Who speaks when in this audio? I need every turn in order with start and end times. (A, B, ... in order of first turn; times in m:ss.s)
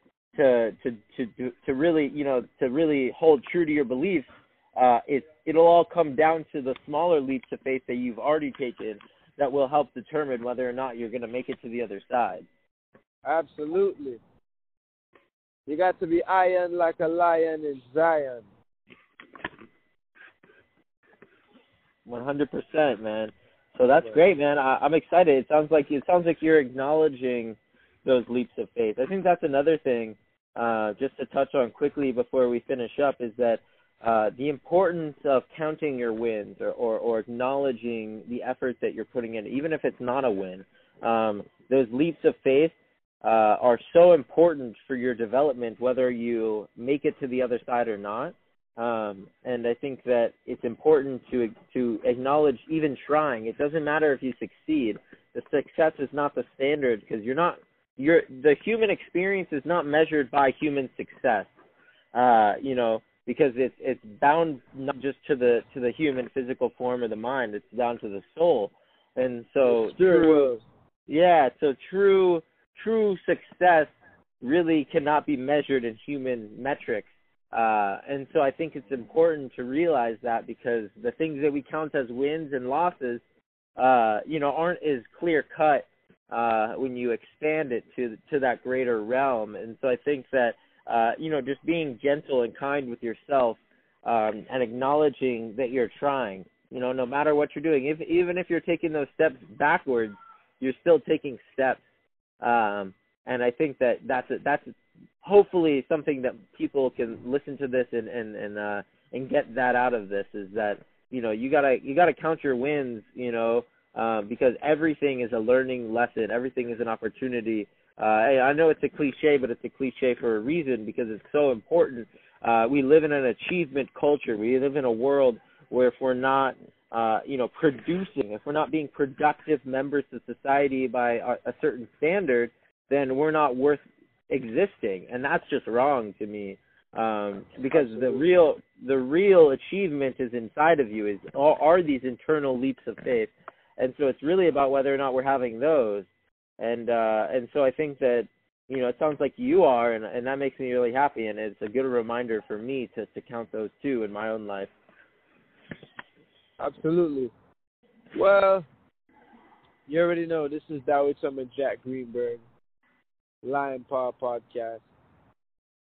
0:00.4-0:04.2 A
0:04.8-0:12.4 A
0:13.2-0:14.2 B
0:15.7-0:18.5 B
0:22.1-1:01.5 A
1:02.1-1:10.5 A
1:09.6-1:10.6 B
1:11.1-1:13.9 A
1:14.4-1:23.2 A
1:23.8-1:41.8 A
1:42.4-1:44.7 A
1:45.2-2:26.1 A
2:17.7-2:18.2 B
2:26.6-2:34.7 A
2:36.6-2:37.3 B
2:38.2-2:38.7 B
2:39.9-2:42.4 B
2:43.4-2:44.8 B